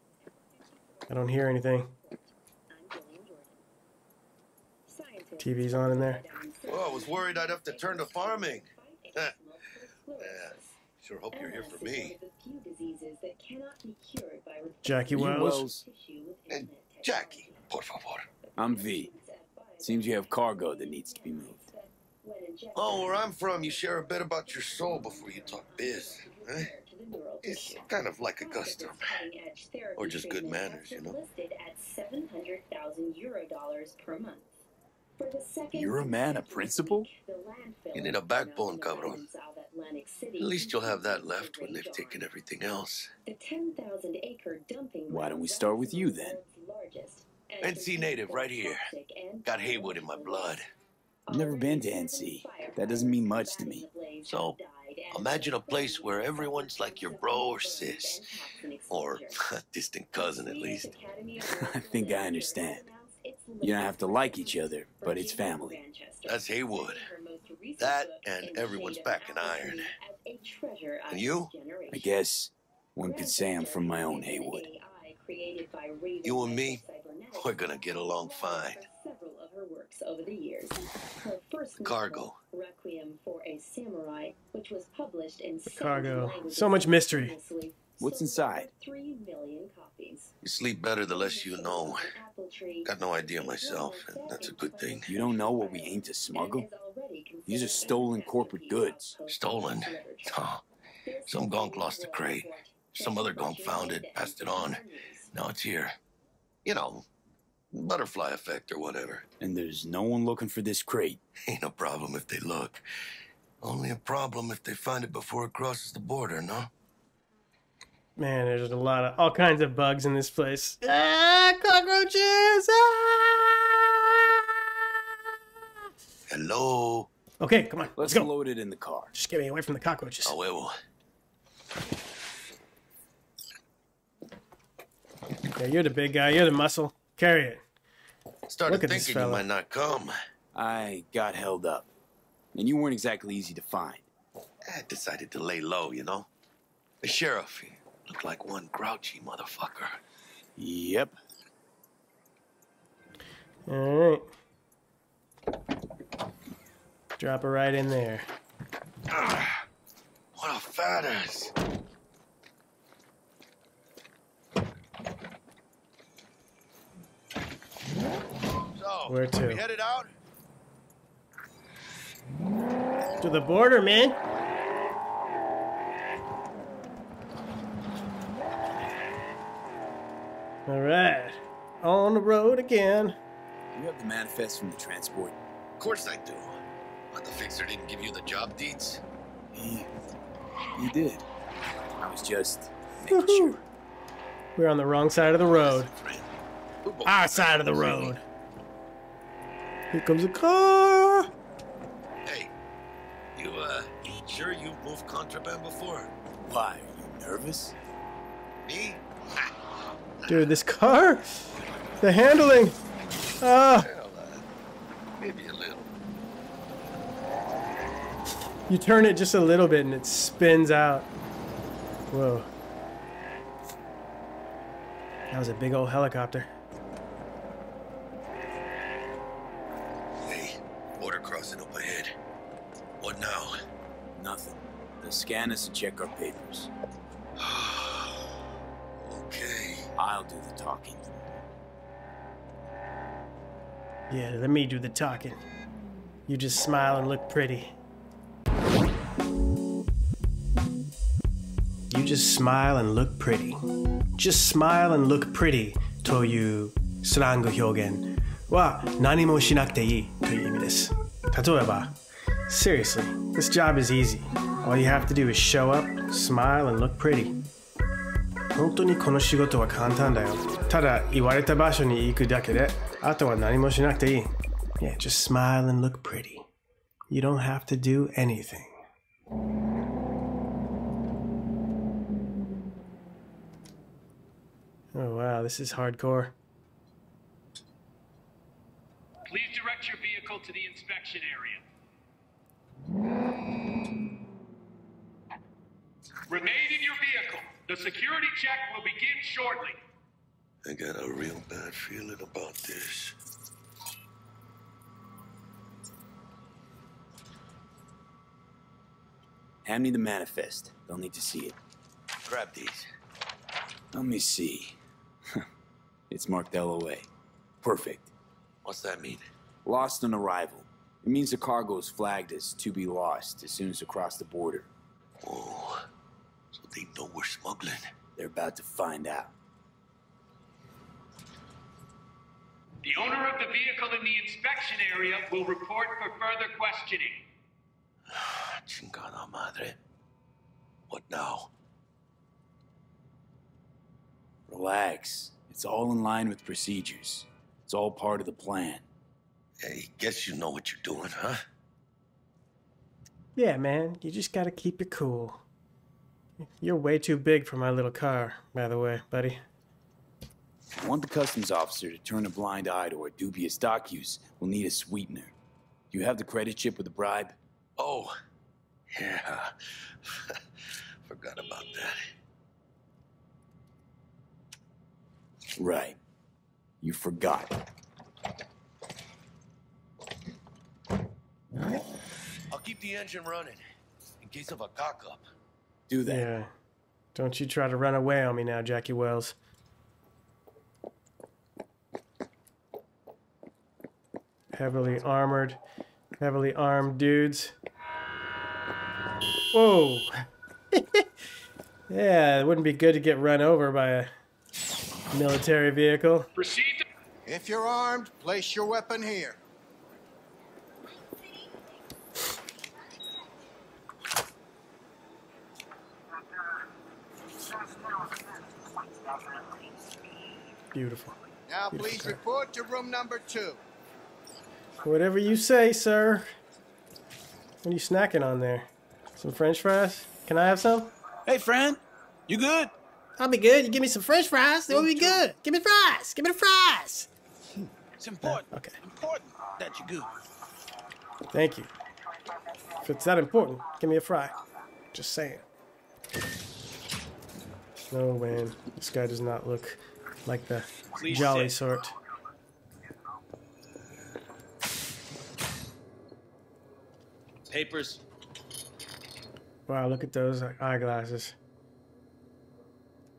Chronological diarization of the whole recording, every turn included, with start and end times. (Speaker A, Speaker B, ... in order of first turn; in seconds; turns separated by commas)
Speaker A: 0.2-3.6, Speaker B: 1.1-1.9, Speaker A: 4.8-10.8, Speaker B: 5.4-6.2, Speaker C: 6.7-9.3, Speaker C: 10.2-12.2, Speaker A: 11.3-17.7, Speaker B: 14.8-15.7, Speaker D: 15.1-15.8, Speaker C: 16.5-18.3, Speaker A: 18.4-34.7, Speaker D: 18.6-19.1, Speaker D: 19.8-21.6, Speaker C: 22.7-26.7, Speaker C: 27.4-29.2, Speaker C: 29.9-31.2, Speaker A: 35.2-42.2, Speaker D: 35.7-37.1, Speaker C: 37.9-39.2, Speaker C: 40.4-43.1, Speaker A: 43.2-50.6, Speaker D: 45.1-46.4, Speaker C: 47.6-48.9, Speaker C: 49.4-50.6, Speaker A: 51.2-59.4, Speaker D: 51.3-53.9, Speaker C: 54.2-54.6, Speaker C: 55.1-58.2, Speaker C: 58.9-60.9, Speaker A: 60.1-72.1, Speaker D: 61.5-62.8, Speaker D: 63.6-65.8, Speaker C: 66.2-67.1, Speaker C: 67.8-69.8, Speaker C: 71.1-71.5, Speaker D: 71.9-74.7, Speaker A: 73.0-90.3, Speaker C: 76.2-78.8, Speaker C: 81.8-82.4, Speaker B: 85.7-87.4, Speaker D: 88.0-88.7, Speaker C: 90.4-92.1, Speaker A: 91.1-100.4, Speaker C: 92.8-95.1, Speaker D: 95.1-96.7, Speaker D: 97.5-99.1, Speaker C: 99.3-100.6, Speaker A: 101.0-105.3, Speaker C: 101.3-104.8, Speaker C: 105.3-106.0, Speaker C: 106.6-107.0, Speaker C: 107.7-109.2, Speaker D: 109.4-111.2, Speaker C: 111.5-112.8, Speaker C: 113.6-116.7, Speaker B: 118.2-124.4, Speaker C: 126.3-127.1, Speaker B: 127.4-128.3, Speaker D: 128.0-129.1, Speaker B: 129.1-130.3, Speaker C: 130.2-130.8, Speaker B: 135.5-137.6, Speaker C: 138.5-140.1, Speaker B: 138.7-139.4, Speaker D: 140.5-141.9, Speaker D: 142.5-144.1, Speaker C: 144.7-146.3, Speaker C: 147.0-150.0, Speaker D: 150.6-151.2, Speaker B: 153.7-154.3, Speaker B: 157.2-158.3, Speaker C: 159.1-159.6, Speaker C: 160.3-161.5, Speaker C: 168.8-170.1, Speaker B: 169.1-169.6, Speaker B: 173.2-174.2, Speaker B: 180.7-183.2, Speaker D: 183.7-185.4, Speaker C: 185.8-186.6, Speaker C: 187.1-189.0, Speaker D: 189.5-189.9, Speaker D: 190.8-191.2, Speaker D: 192.0-193.6, Speaker B: 193.1-193.6, Speaker B: 194.6-195.9, Speaker C: 195.6-196.3, Speaker C: 196.8-198.2, Speaker B: 197.0-198.2, Speaker B: 199.9-201.3, Speaker C: 202.2-202.5, Speaker C: 203.3-206.1, Speaker D: 206.4-207.8, Speaker C: 208.6-209.5, Speaker B: 210.3-211.4, Speaker B: 212.0-212.8, Speaker B: 213.4-213.9, Speaker C: 213.7-214.4, Speaker C: 215.2-215.9, Speaker B: 218.7-221.1, Speaker B: 222.1-222.5, Speaker B: 225.3-226.5, Speaker C: 230.2-232.2, Speaker C: 233.0-233.5, Speaker D: 234.1-236.7, Speaker C: 237.4-238.3, Speaker C: 239.0-239.9, Speaker D: 240.0-241.2, Speaker B: 244.1-245.4, Speaker B: 246.3-247.7, Speaker B: 251.9-253.6, Speaker B: 254.2-261.9, Speaker B: 262.5-267.3, Speaker B: 268.5-276.4, Speaker B: 277.1-278.8, Speaker B: 284.9-286.3, Speaker E: 289.2-291.6, Speaker E: 296.3-299.8, Speaker C: 300.6-303.1, Speaker D: 309.6-311.6, Speaker C: 312.2-312.9, Speaker D: 313.9-314.8, Speaker D: 316.1-317.1, Speaker D: 317.6-318.1, Speaker C: 318.6-319.2, Speaker D: 319.6-324.7, Speaker C: 325.2-325.9, Speaker C: 326.5-327.9, Speaker D: 328.1-329.3, Speaker E: 332.8-337.2, Speaker C: 338.1-339.8, Speaker C: 340.9-341.5, Speaker D: 344.5-348.8, Speaker C: 349.6-351.4, Speaker B: 353.4-355.4, Speaker B: 356.6-359.4, Speaker D: 360.8-365.3, Speaker D: 365.9-367.4, Speaker C: 367.8-368.1, Speaker C: 368.9-370.4, Speaker C: 371.0-372.0, Speaker D: 375.6-376.0, Speaker D: 376.8-377.5, Speaker C: 382.5-383.6, Speaker C: 384.2-385.2, Speaker D: 385.9-386.3, Speaker B: 386.1-386.5, Speaker B: 387.1-389.4, Speaker B: 394.5-395.6, Speaker B: 396.2-397.5, Speaker B: 399.5-400.1, Speaker B: 400.7-401.1, Speaker B: 401.9-404.1, Speaker B: 405.1-406.3, Speaker E: 406.3-406.8, Speaker F: 407.3-409.4, Speaker B: 420.7-421.1, Speaker F: 421.5-423.6, Speaker B: 421.7-422.2, Speaker B: 424.8-426.3, Speaker B: 427.6-430.9, Speaker D: 431.3-432.7, Speaker B: 433.2-437.1, Speaker D: 434.8-435.2, Speaker G: 438.0-440.1, Speaker B: 438.2-438.8, Speaker B: 441.3-441.7, Speaker B: 442.8-444.3, Speaker B: 444.9-445.4, Speaker B: 447.9-451.9, Speaker G: 450.9-451.5, Speaker G: 457.5-458.0, Speaker B: 459.7-461.3